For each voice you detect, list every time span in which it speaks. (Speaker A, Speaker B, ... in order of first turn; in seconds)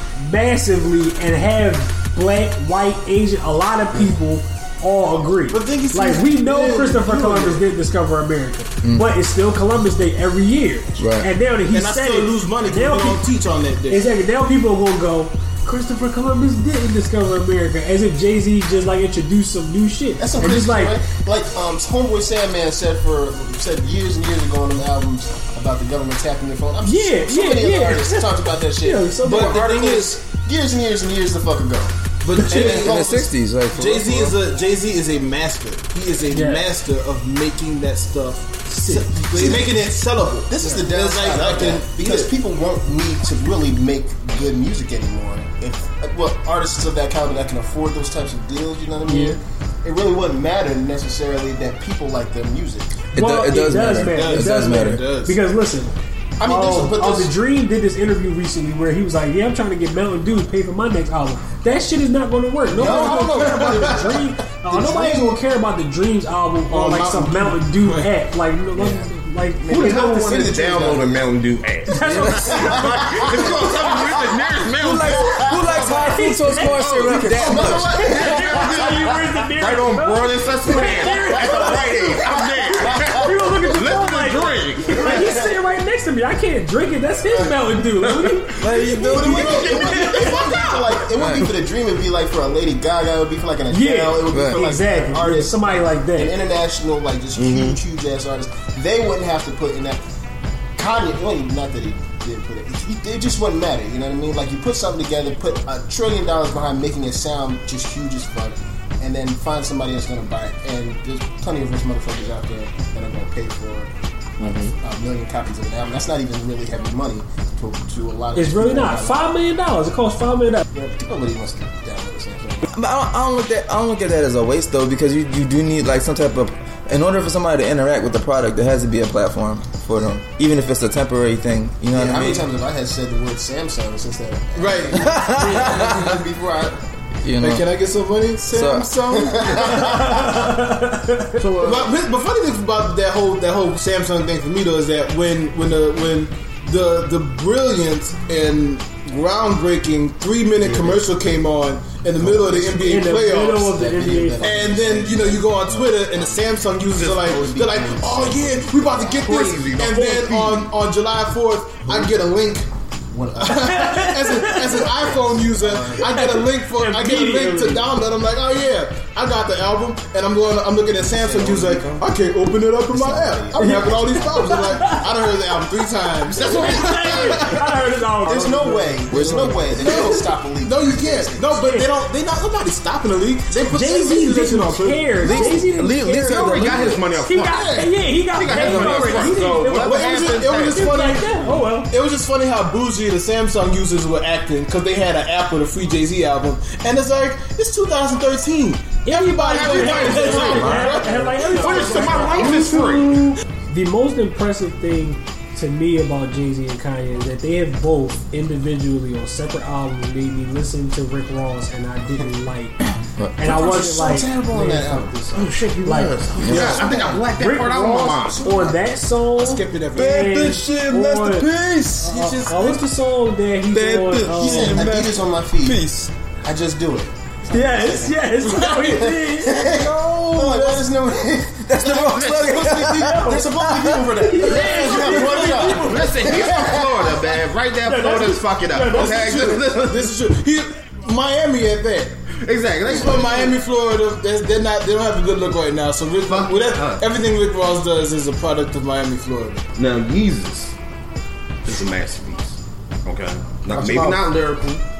Speaker A: 0.2-13.3, 13.9-21.0, 26.8-29.7, 36.3-36.7, 38.7-39.7, 49.1-49.4, 53.2-70.3, 71.9-72.9, 75.8-90.5, 93.7-96.3, 118.3-120.6, 140.0-141.4, 152.8-154.6, 163.5-164.6, 165.9-167.9, 173.6-175.1, 176.4-179.0, 179.8-180.2, 181.6-181.9, 183.7-191.9, 199.0-212.8, 213.4-215.1, 215.8-224.9, 227.5-229.7, 233.0-233.4, 234.2-236.7, 237.8-239.6
Speaker B: 5.5-7.6, 11.7-14.0, 29.2-30.2, 32.2-33.0, 33.7-42.3, 54.0-55.4, 66.7-68.1, 73.8-74.3, 134.6-135.1, 137.4-140.2, 141.6-153.8, 154.4-162.7, 163.4-177.7, 179.8-185.6, 189.8-200.7, 219.4-220.4, 222.1-222.8, 234.4-235.4, 238.9-242.2, 242.9-249.6
Speaker C: 8.8-9.1, 11.0-11.3, 32.4-34.4, 53.1-55.0, 72.0-72.8, 74.8-77.9, 88.6-89.8, 91.2-91.5, 94.3-94.6, 122.7-132.5, 134.9-136.2, 137.2-137.7, 138.5-139.2, 179.1-179.8, 185.3-187.0, 188.5-189.4, 200.6-202.1, 216.4-216.9, 219.9-222.1, 223.7-226.1, 229.6-230.9, 231.7-234.2
Speaker D: 20.2-33.4, 39.4-39.7, 40.5-52.9, 56.4-57.3, 62.8-65.2, 68.8-71.2, 72.5-74.4, 75.0-76.3, 77.2-79.2, 80.8-83.3, 84.9-85.4, 89.1-100.0, 100.8-113.9, 114.8-119.3, 120.7-122.7, 131.9-136.8, 139.1-140.4, 150.6-151.2, 152.2-156.4, 157.0-159.5, 163.1-165.9, 171.1-172.1, 172.9-175.0, 176.3-177.4, 178.2-181.6, 213.4-215.5, 224.3-225.9, 226.4-237.4, 253.7-254.2
Speaker E: 62.8-64.3, 64.8-65.2, 69.7-75.3, 76.7-85.5, 88.0-91.0, 97.4-97.8, 114.4-114.7, 141.4-142.0, 156.9-157.8, 159.1-160.7, 161.9-162.1, 176.3-177.4, 185.2-190.9, 199.4-203.4, 215.3-218.8, 232.0-232.6, 235.3-240.2, 242.3-243.6, 246.3-247.1, 249.8-250.8, 251.6-254.8